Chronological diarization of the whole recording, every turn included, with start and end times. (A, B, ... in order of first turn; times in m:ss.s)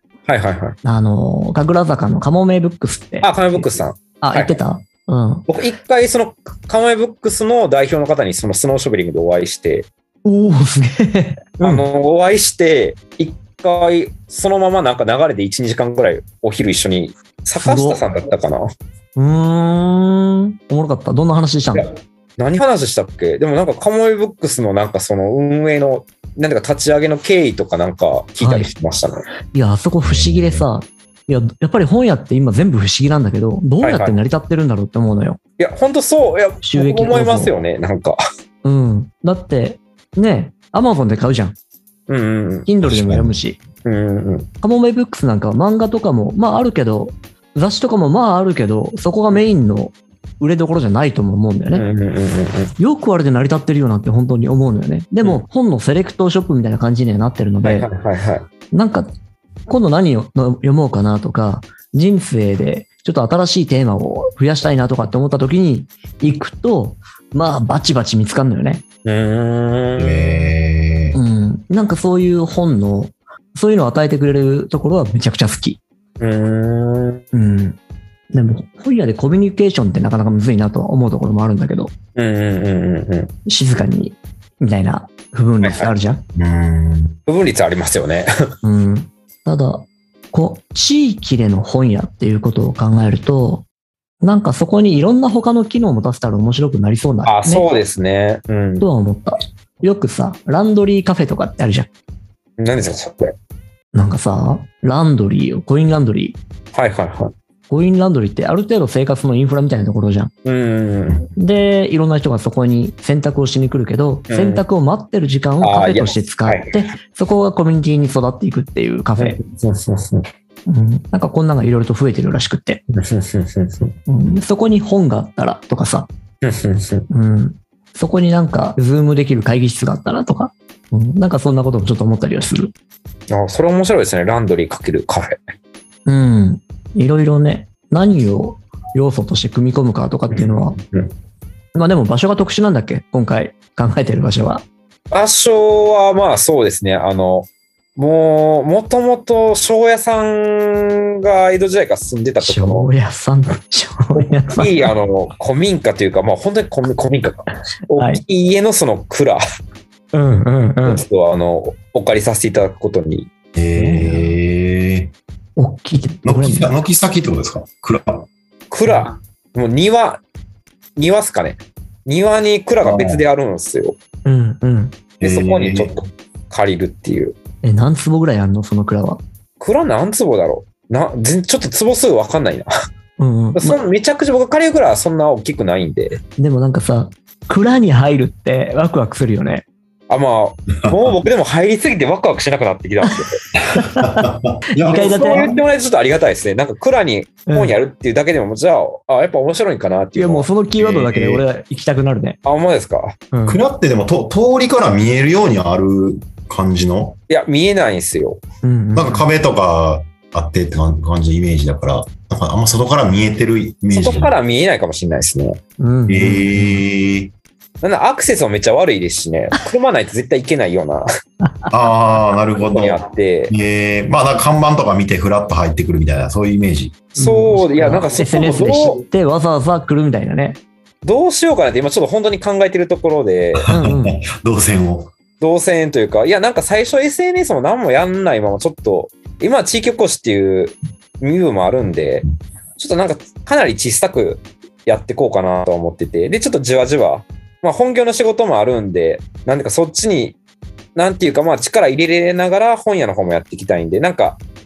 0:00.3-0:00.8 A
0:00.8-0:05.4 B
0:03.2-0:04.6 A
0:05.5-0:09.9 A
0:10.2-0:11.8 B
0:11.6-0:18.7 A
0:17.6-0:18.0 B
0:19.2-0:21.9 B
0:21.7-0:29.2 A
0:28.4-0:28.7 B
0:29.5-0:35.4 B
0:30.0-0:30.7 C
0:33.8-0:34.2 A
0:35.6-0:38.2 A
0:36.6-0:37.5 B
0:38.6-0:41.6 B
0:42.1-0:42.7 A
0:42.6-0:43.6 B
0:42.8-0:43.4 C
0:43.8-0:44.5 A
0:44.6-0:51.8 B
0:51.7-0:52.7 A
0:52.8-0:57.9 B
0:57.6-0:58.4 A
0:58.7-0:59.1 B
0:59.7-1:08.8 B
1:09.0-1:10.5 A
1:10.0-1:11.2 C
1:11.1-1:15.8 B
1:16.2-1:17.2 A
1:17.3-1:17.8 B
1:18.3-1:21.9 B
1:22.2-1:23.3 A
1:23.5-1:26.2 B
1:25.6-1:25.9 A
1:26.4-1:27.2 C
1:27.3-1:28.3 A
1:28.6-1:33.6 B
1:34.2-1:37.7 B
1:37.2-1:38.8 A
1:38.8-1:41.9 B
1:42.6-1:43.3 A
1:43.9-1:46.4 B
1:46.7-1:47.3 A
1:47.7-1:50.3 B
1:50.4-1:51.3 A
1:51.4-1:59.4 B
1:54.3-1:54.6 A
1:55.6-1:56.8 A
1:59.2-2:00.2 A
2:00.7-2:02.8 B
2:02.9-2:03.9 A
2:04.1-2:06.1 B
2:06.4-2:07.1 A
2:07.1-2:12.7 B
2:13.3-2:15.4 A
2:16.0-2:20.7 B
2:20.3-2:21.1 A
2:21.7-2:24.6 B
2:25.1-2:32.9 A
2:32.4-2:34.9 B
2:34.1-2:39.4 A
2:38.0-2:38.2 B
2:40.1-2:41.0 B
2:40.8-2:43.3 A
2:43.5-2:45.1 C
2:43.7-2:44.4 B
2:45.6-2:46.7 B
2:46.2-2:48.3 C
2:48.7-2:50.2 A
2:51.0-2:54.0 A
2:52.8-2:53.2 C
2:54.2-2:54.9 B
2:55.2-2:57.3 A
2:55.2-2:55.9 C
2:57.6-2:59.2 B
2:59.6-3:02.7 A
3:03.2-3:03.8 B
3:03.5-3:06.2 A
3:06.4-3:09.6 B
3:10.1-3:13.4 A
3:13.7-3:14.2 B
3:14.0-3:15.5 C
3:14.8-3:15.5 B
3:14.9-3:20.5 A
3:17.5-3:17.8 B
3:20.2-3:22.4 B
3:20.8-3:21.4 C
3:22.4-3:23.2 A
3:23.3-3:23.6 B
3:23.5-3:27.2 C
3:27.3-3:28.4 A
3:28.6-3:29.3 B
3:28.9-3:34.3 C
3:33.9-3:35.6 A
3:35.8-3:36.8 B
3:36.1-3:37.3 C
3:37.8-3:41.0 A
3:41.4-3:41.7 B
3:41.7-3:43.0 C
3:42.7-3:43.5 A
3:43.5-3:47.0 C
3:47.1-3:49.0 A
3:47.2-3:50.6 B
3:51.0-3:53.7 A
3:53.6-3:55.1 C
3:53.7-3:54.2 B
3:55.4-4:02.3 A
4:02.8-4:10.4 A
4:11.0-4:14.4 A